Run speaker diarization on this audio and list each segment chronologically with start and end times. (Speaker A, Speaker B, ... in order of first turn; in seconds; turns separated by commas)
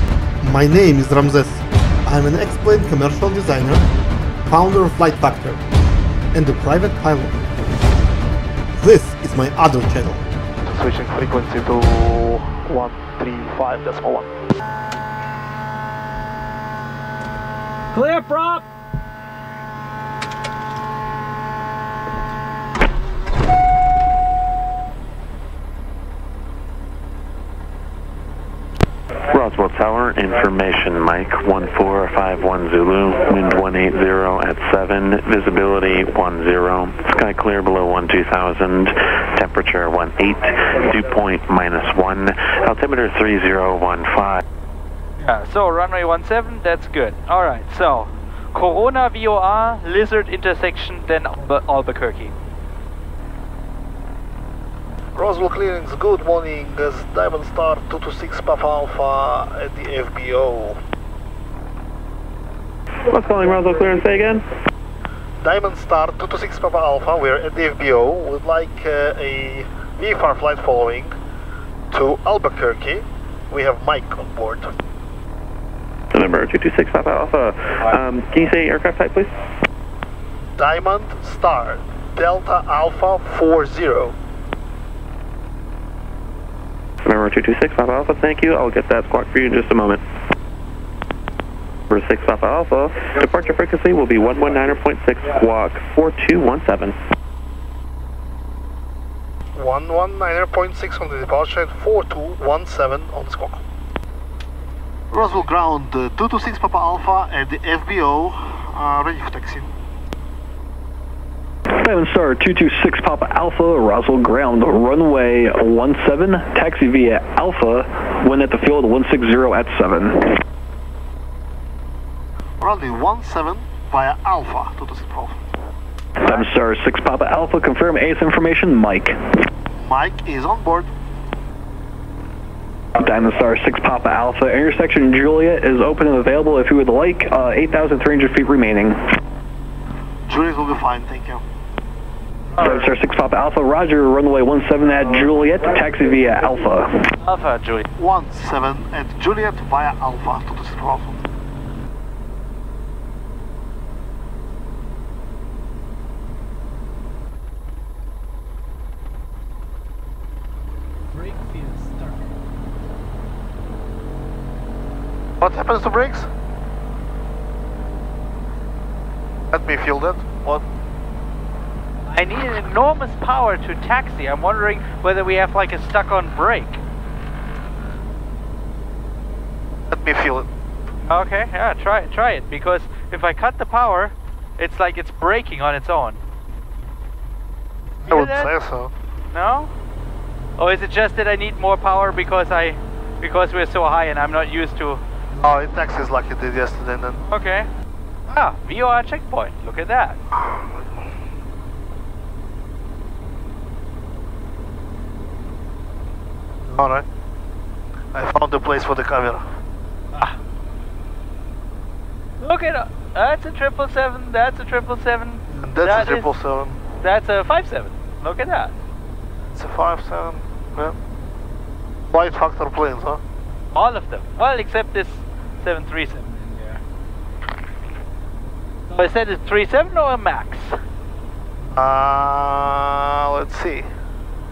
Speaker A: 0.4-3.9, Speaker A: 4.5-5.6, Speaker A: 6.3-7.4, Speaker A: 8.8-10.2, Speaker B: 10.7-14.3, Speaker C: 17.9-18.6, Speaker D: 29.3-44.4, Speaker C: 45.2-52.3, Speaker B: 55.1-60.8, Speaker D: 63.0-64.5, Speaker B: 65.4-71.1, Speaker B: 71.9-74.7, Speaker D: 76.1-79.3, Speaker B: 80.6-84.2, Speaker D: 87.0-90.0, Speaker D: 91.9-97.0, Speaker B: 99.5-103.6, Speaker B: 105.1-109.7, Speaker E: 111.7-120.3, Speaker B: 122.6-125.4, Speaker E: 126.2-129.2, Speaker B: 129.8-130.9, Speaker E: 133.0-139.0, Speaker B: 140.3-141.4, Speaker C: 142.6-142.9, Speaker E: 142.6-146.9, Speaker C: 147.2-147.9, Speaker B: 148.0-151.2, Speaker B: 165.4-166.3, Speaker B: 169.5-170.6, Speaker C: 172.1-176.8, Speaker B: 179.9-180.5, Speaker C: 181.1-186.2, Speaker C: 188.1-188.5, Speaker B: 188.1-188.9, Speaker C: 189.3-189.7, Speaker C: 190.6-195.0, Speaker B: 195.3-197.2, Speaker C: 197.3-197.7, Speaker C: 198.3-200.2, Speaker B: 200.4-200.7, Speaker B: 206.6-207.1, Speaker B: 208.1-209.4, Speaker C: 212.4-216.3, Speaker B: 215.5-216.8, Speaker C: 217.0-218.7, Speaker B: 219.5-221.0, Speaker B: 222.1-223.2, Speaker C: 223.7-226.8, Speaker C: 228.9-230.8, Speaker B: 231.7-233.9